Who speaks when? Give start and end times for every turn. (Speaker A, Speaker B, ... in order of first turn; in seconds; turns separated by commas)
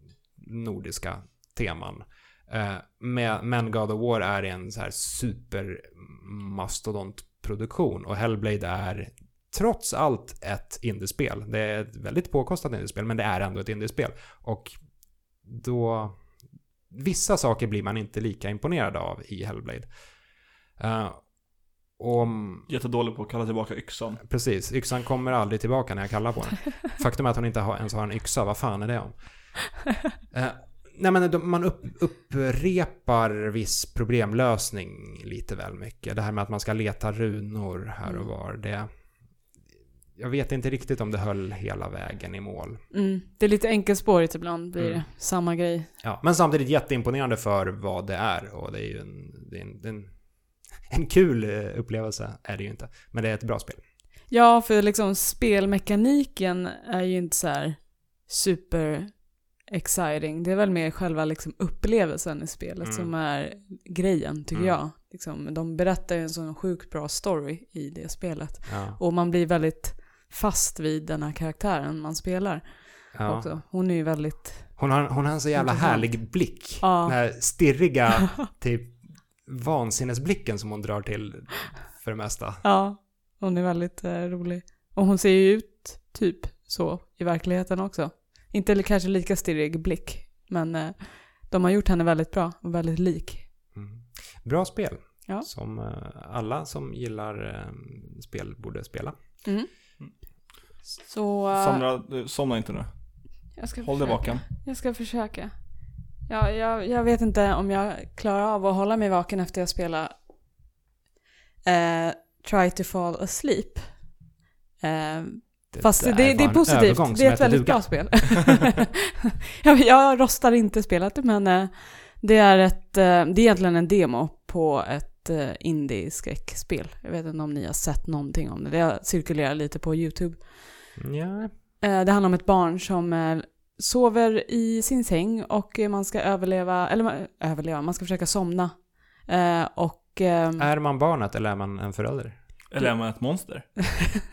Speaker A: 0.4-22.7, Speaker B: 22.7-24.3, Speaker A: 24.2-29.7, Speaker A: 30.3-39.4, Speaker A: 40.2-42.8, Speaker C: 42.9-45.9, Speaker A: 44.8-45.0, Speaker A: 46.0-53.8, Speaker C: 54.3-75.0, Speaker A: 62.8-63.1, Speaker A: 64.5-64.8, Speaker A: 68.7-69.0, Speaker A: 73.1-73.5, Speaker A: 74.8-82.6, Speaker C: 75.6-77.8, Speaker C: 82.6-93.5, Speaker A: 93.8-99.5, Speaker C: 99.5-100.2, Speaker C: 101.0-101.8, Speaker B: 101.5-104.4, Speaker C: 103.5-110.2, Speaker C: 111.6-119.0, Speaker A: 115.7-118.5, Speaker C: 119.6-130.9, Speaker A: 131.0-131.5, Speaker C: 131.8-140.7, Speaker A: 140.6-142.4, Speaker B: 142.7-143.8, Speaker C: 142.8-143.8